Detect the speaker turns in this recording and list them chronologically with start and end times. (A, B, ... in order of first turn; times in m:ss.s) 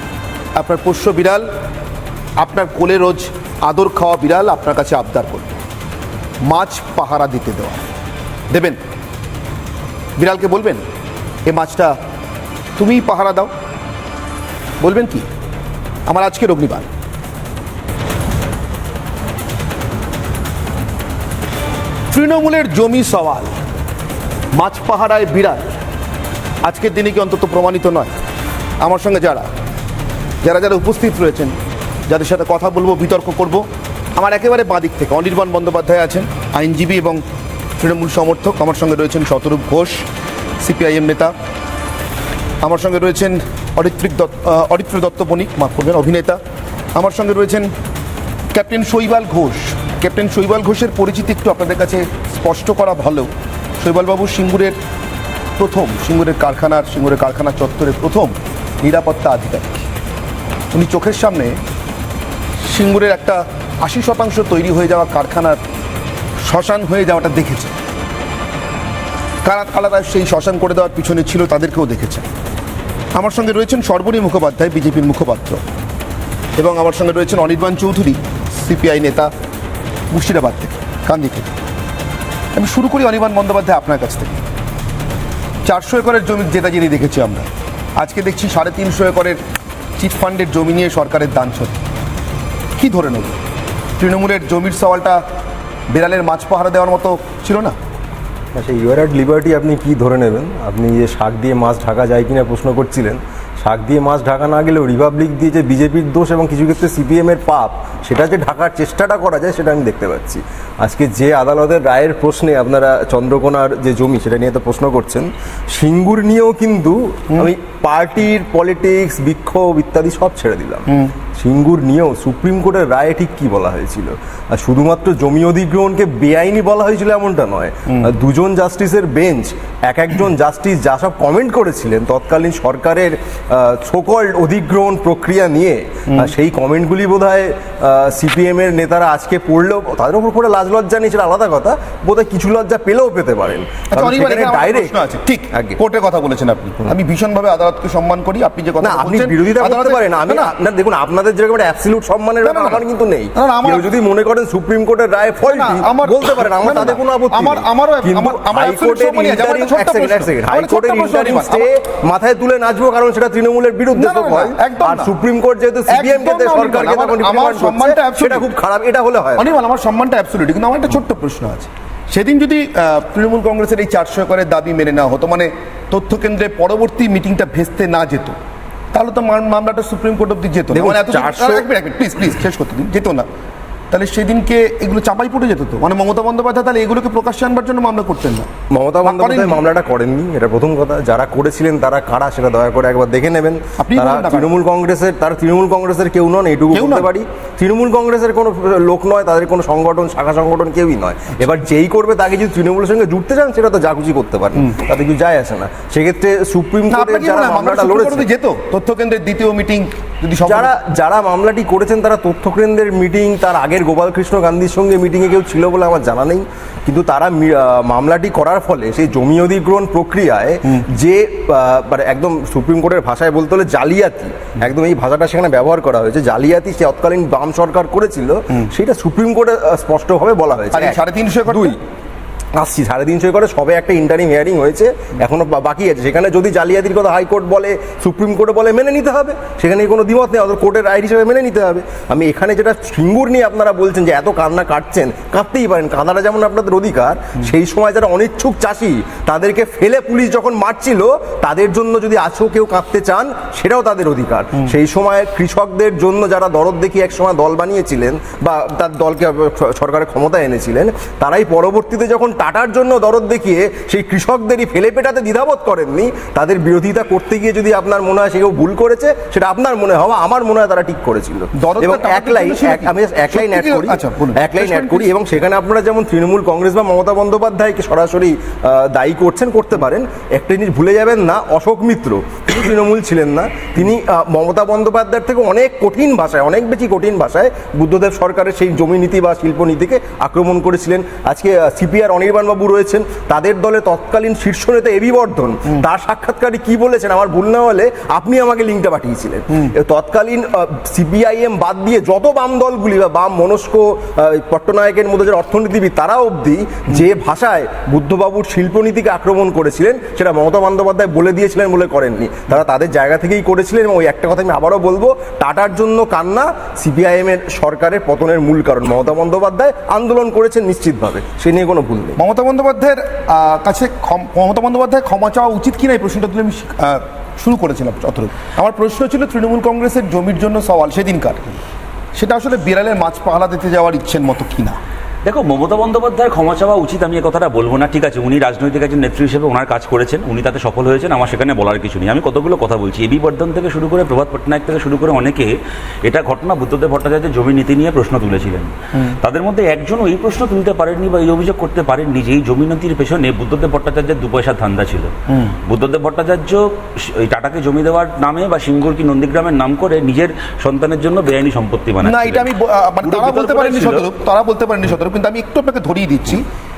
0:00.6-0:01.4 A
0:02.4-0:05.5 A
0:06.4-0:07.8 A
0:08.5-0:08.8 A
0:10.2-0:10.8 A
0:11.4-0:11.9 A
0:12.8-0:13.5 A
0:14.8-0:15.2 A
0:16.1-0:16.8 A
0:22.1-0:23.5 A
0:24.5-0:25.7 A
0:26.6-0:28.1 A
0:28.8-0:29.5 A
0:30.4-0:31.5 A
0:32.1-0:33.6 A
0:34.2-0:37.2 A
0:37.8-0:40.0 A
0:40.6-0:41.3 A
0:42.6-0:46.4 A
0:47.0-0:47.7 A
0:48.5-0:53.3 A
0:53.8-0:54.8 A
0:55.6-0:59.8 A
1:00.7-1:01.6 A
1:02.7-1:05.6 A
1:06.4-1:07.7 A
1:09.4-1:12.2 A
1:13.1-1:15.6 A
1:16.6-1:19.3 A
1:20.1-1:21.5 A
1:22.5-1:24.4 A
1:25.6-1:27.5 A
1:28.0-1:29.4 A
1:30.0-1:31.8 A
1:32.8-1:33.4 A
1:34.0-1:35.2 A
1:35.9-1:37.7 A
1:38.5-2:24.9 B
2:23.9-2:30.5 A
2:28.8-2:49.4 B
2:32.4-2:33.9 A
2:35.4-2:41.7 A
2:43.9-2:45.1 A
2:45.9-2:48.5 A
2:49.4-2:58.3 A
2:58.9-3:03.2 A
3:00.7-3:01.6 B
3:03.9-3:08.5 A
3:08.7-3:28.2 B
3:09.0-3:09.6 A
3:13.8-3:14.5 A
3:16.7-3:17.1 A
3:26.9-3:30.7 A
3:30.4-3:51.8 B
3:50.7-3:51.8 A
3:52.5-5:22.2 B
4:31.6-4:35.1 A
5:22.2-5:31.6 A
5:32.1-5:34.8 A
5:35.2-5:45.5 C
5:46.0-5:55.1 C
5:55.3-5:55.5 A
5:55.6-6:02.5 C
6:02.0-6:06.4 A
6:03.0-6:04.0 C